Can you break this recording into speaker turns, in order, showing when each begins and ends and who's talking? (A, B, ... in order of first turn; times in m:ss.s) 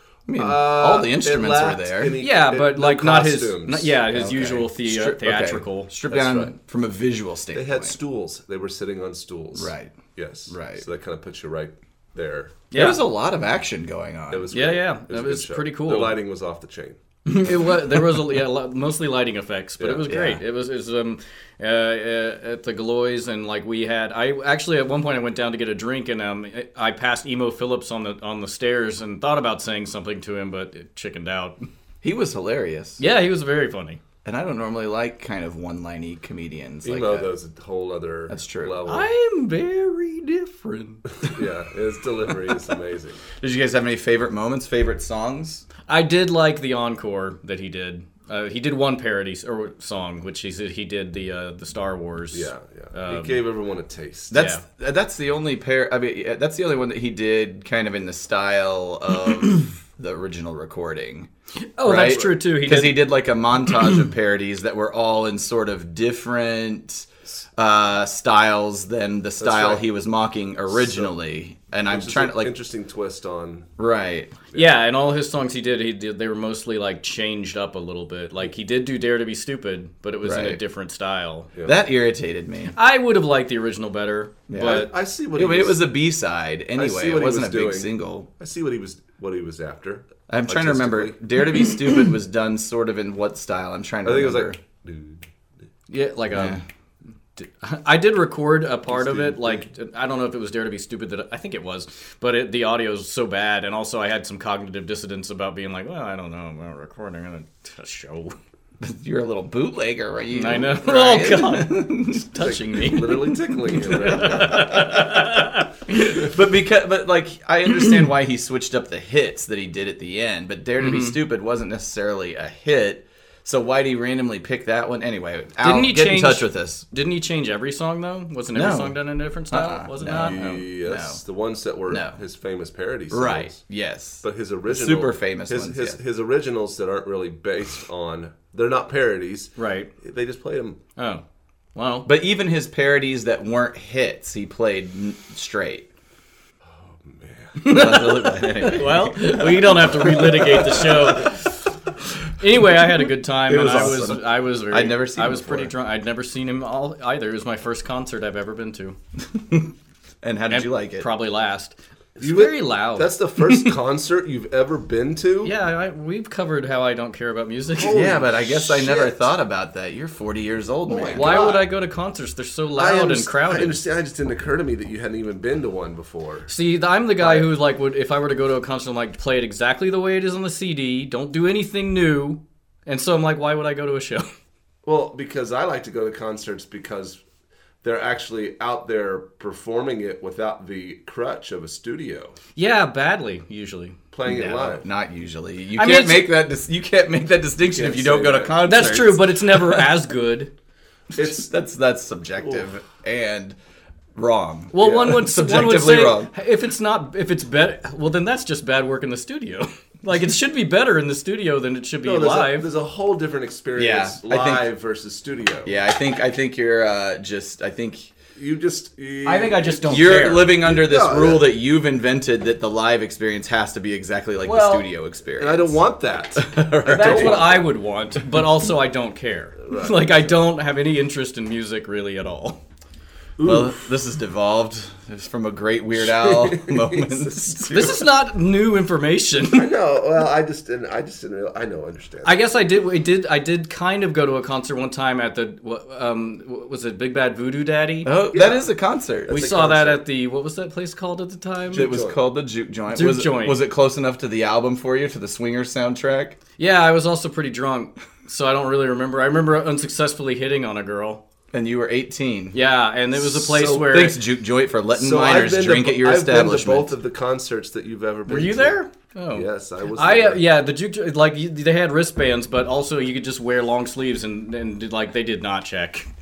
0:00.3-0:02.2 A
0:00.4-0:04.0 B
0:02.2-0:05.9 C
0:04.1-0:08.0 A
0:06.1-0:06.5 B
0:07.5-0:12.7 B
0:09.5-0:10.0 A
0:10.5-0:10.8 A
0:12.7-0:13.0 C
0:12.7-0:14.5 A
0:14.3-0:17.0 B
0:14.5-0:16.2 C
0:17.2-0:31.6 C
0:20.1-0:20.4 A
0:32.0-0:33.0 A
0:33.0-0:34.0 C
0:34.2-0:37.3 A
0:36.8-0:39.1 B
0:38.3-0:38.8 A
0:38.9-0:41.0 C
0:41.2-0:43.2 B
0:43.4-0:45.6 A
0:45.9-0:53.4 C
0:52.3-0:54.5 B
0:54.3-1:01.3 A
0:54.3-0:54.6 C
1:01.8-1:03.1 C
1:01.8-1:12.5 A
1:02.0-1:02.3 B
1:09.4-1:09.8 B
1:10.7-1:11.1 B
1:11.9-1:13.7 B
1:13.8-1:14.3 A
1:14.5-1:21.5 C
1:20.2-1:20.6 A
1:21.6-1:22.8 A
1:22.8-1:24.9 C
1:24.5-1:28.3 A
1:24.6-1:25.8 B
1:26.8-1:31.2 B
1:30.3-1:34.6 A
1:34.0-1:35.2 B
1:35.9-1:36.6 C
1:36.3-1:36.6 A
1:37.4-1:48.4 C
1:38.9-1:39.6 B
1:48.8-1:52.3 A
1:50.3-1:55.7 C
1:52.4-1:54.7 B
1:54.2-2:06.8 A
2:00.8-2:01.2 C
2:05.6-2:10.6 C
2:08.5-2:09.0 A
2:09.5-2:11.2 A
2:10.0-2:13.6 B
2:11.9-2:12.2 A
2:13.1-2:16.0 A
2:14.2-2:20.8 B
2:19.6-2:19.9 C
2:21.0-2:21.2 C
2:21.7-2:22.1 C
2:22.0-2:25.9 A
2:26.7-2:27.8 B
2:27.6-2:31.5 C
2:27.6-2:31.4 A
2:32.4-2:39.0 C
2:32.8-2:35.7 A
2:39.3-2:41.1 A
2:40.5-2:43.7 C
2:42.2-2:45.5 B
2:45.4-2:48.1 C
2:47.8-2:49.3 B
2:47.9-2:51.5 A
2:50.9-2:51.6 B
2:51.2-2:53.8 C
2:52.8-2:56.5 B
2:56.5-3:04.3 C
3:04.8-3:07.2 B
3:07.8-3:12.4 B
3:12.6-3:14.0 C
3:14.1-3:14.8 B
3:14.2-3:19.9 A
3:15.8-3:16.3 C
3:17.6-3:18.5 B
3:18.6-3:20.5 C
3:21.1-3:21.5 B
3:21.2-3:23.6 A
3:24.1-3:26.3 A
3:24.7-3:32.7 C
3:24.8-3:25.2 B
3:32.0-3:35.8 B
3:33.8-3:34.7 A
3:35.6-3:38.1 A
3:38.4-3:41.5 B
3:39.2-3:40.5 C
3:39.9-3:45.8 A
3:44.4-3:44.8 C
3:45.4-3:47.6 B
3:46.3-3:47.6 A
3:46.9-3:52.6 C
3:49.6-3:50.3 B
3:53.4-3:53.7 B
3:53.4-3:58.0 A
3:56.0-3:57.6 B
3:57.7-3:59.7 C
3:59.5-4:02.5 B
4:02.2-4:08.1 C
4:08.0-4:09.8 A
4:08.3-4:08.7 B
4:09.2-4:10.0 B
4:09.3-4:11.8 C
4:11.7-4:12.2 B
4:11.7-4:16.4 A
4:12.9-4:13.6 C
4:16.6-4:21.2 C
4:21.5-4:22.6 A
4:22.5-4:24.2 C
4:23.1-4:26.9 A
4:24.9-4:28.8 B
4:28.3-4:36.1 C
4:29.3-4:30.4 B